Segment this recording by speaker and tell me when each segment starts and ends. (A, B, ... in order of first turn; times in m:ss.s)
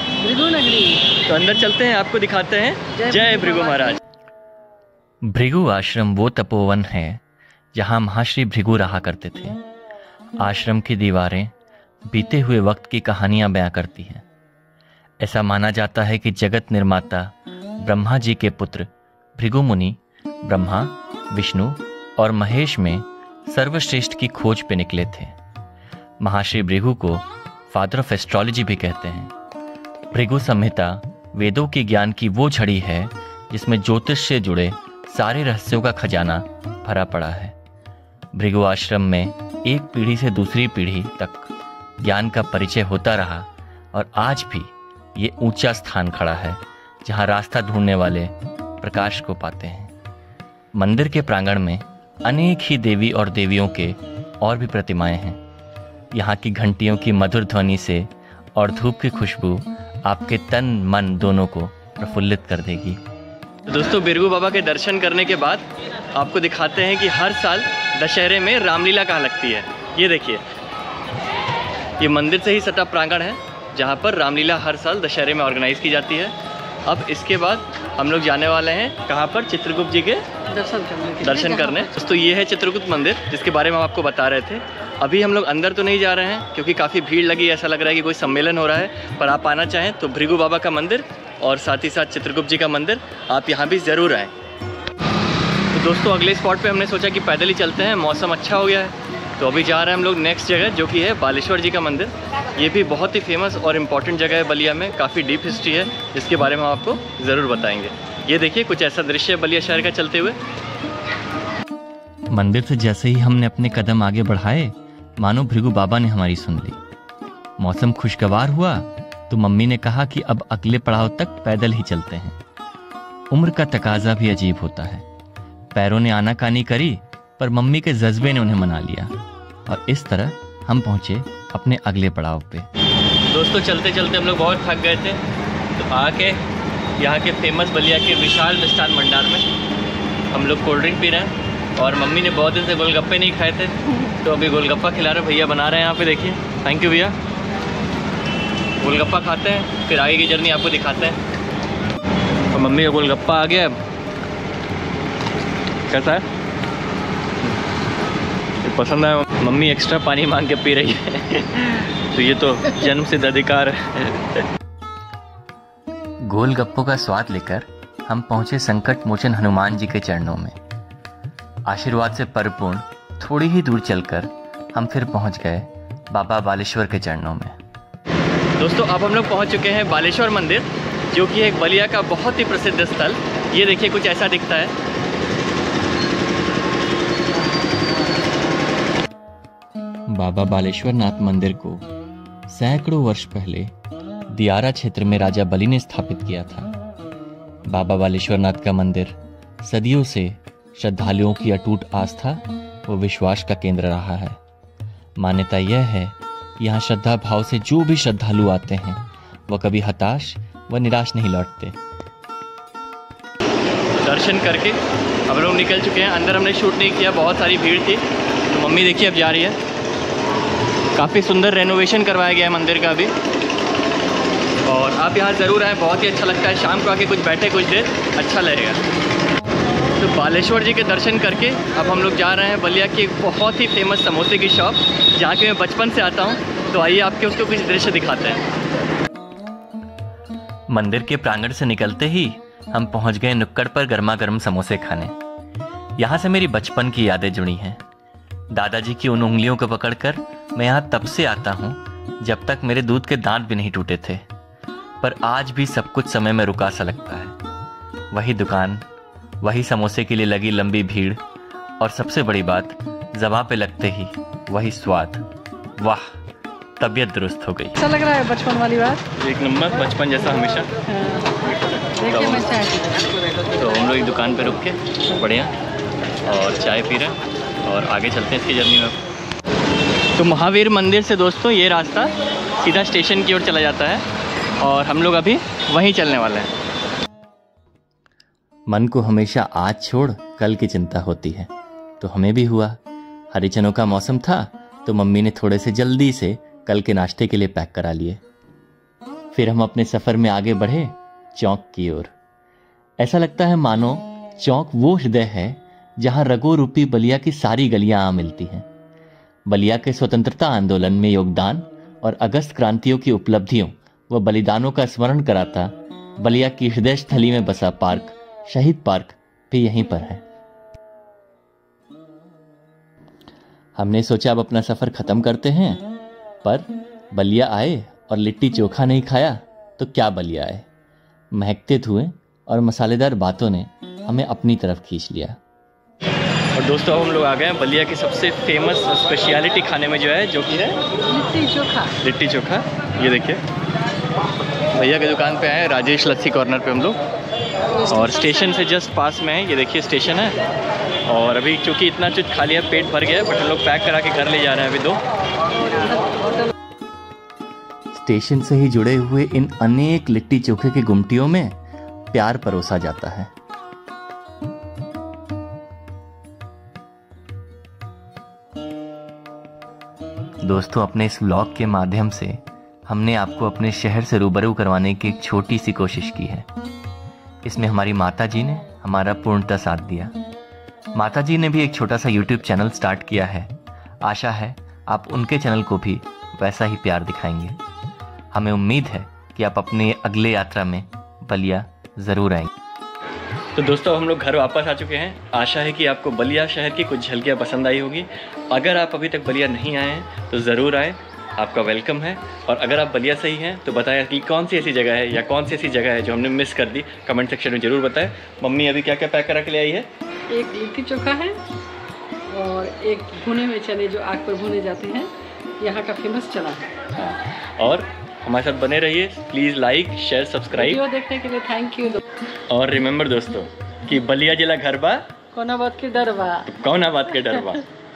0:00.2-0:01.1 A
0:01.1-0:04.0 B
0:03.0-0:04.0 A
0:05.3-0:07.2 C
0:07.7-0:09.6 C
0:10.4-0:11.5 C
0:12.1-0:14.2 C
0:15.2-0:25.4 C
0:26.2-0:29.3 C
0:30.1-0:37.6 C
0:38.3-0:49.9 C
0:50.8-0:55.4 C
0:56.1-1:03.0 C
1:03.7-1:10.4 B
1:12.0-1:16.4 B
1:16.9-1:20.2 B
1:20.5-1:21.9 A
1:21.2-1:34.3 B
1:35.7-1:50.4 B
1:52.3-1:56.8 C
1:57.6-2:02.4 C
2:03.3-2:05.0 C
2:05.7-2:09.2 C
2:09.7-2:12.7 C
2:13.3-2:15.2 B
2:15.8-2:16.4 B
2:17.0-2:19.5 B
2:20.3-2:27.1 B
2:28.8-2:31.2 B
2:32.5-2:33.8 B
2:35.9-2:36.3 B
2:38.6-2:44.4 B
2:46.3-2:50.6 C
2:51.7-2:57.6 C
2:58.6-3:04.7 B
3:10.1-3:11.9 C
3:12.5-3:13.7 C
3:14.3-3:16.7 C
3:17.7-3:24.4 C
3:25.2-3:31.8 C
3:34.0-3:39.6 B
3:40.9-3:43.1 B
3:44.6-3:48.8 B
3:50.0-3:58.4 B
4:00.7-4:05.2 C
4:06.0-4:07.8 C
4:08.5-4:14.3 C
4:15.0-4:17.4 C
4:18.1-4:18.9 C
4:19.4-4:21.2 C
4:21.8-4:25.3 C
4:25.8-4:26.0 C
4:26.8-4:27.8 C
4:27.8-4:29.0 A
4:29.2-4:30.7 B
4:30.9-4:31.3 A
4:32.0-4:33.5 A
4:32.1-4:32.5 B
4:33.5-4:35.6 B
4:36.2-4:39.0 B
4:40.2-4:44.0 B
4:44.6-4:46.5 B
4:48.7-4:52.8 C
4:53.3-4:58.2 C
4:59.3-5:02.1 C
5:03.0-5:08.7 C
5:09.5-5:20.2 C
5:23.8-5:25.9 C
5:26.4-5:30.7 C
5:31.3-5:35.4 C
5:36.6-5:40.8 B
5:41.0-5:41.9 A
5:42.0-5:43.4 B
5:44.7-5:47.0 B
5:47.7-5:48.7 A
5:47.9-5:50.3 B
5:51.1-5:55.0 B
5:55.6-5:56.5 A
5:57.9-6:01.6 C
6:02.1-6:03.3 C
6:10.4-6:16.5 C
6:17.4-6:20.2 C
6:21.0-6:27.6 C
6:28.3-6:32.5 C
6:33.6-6:49.9 B
6:50.3-6:51.4 A
6:52.3-6:56.7 A
6:56.9-7:00.8 B
7:00.6-7:02.0 A
7:02.5-7:05.1 B
7:05.3-7:06.5 A
7:06.5-7:07.6 B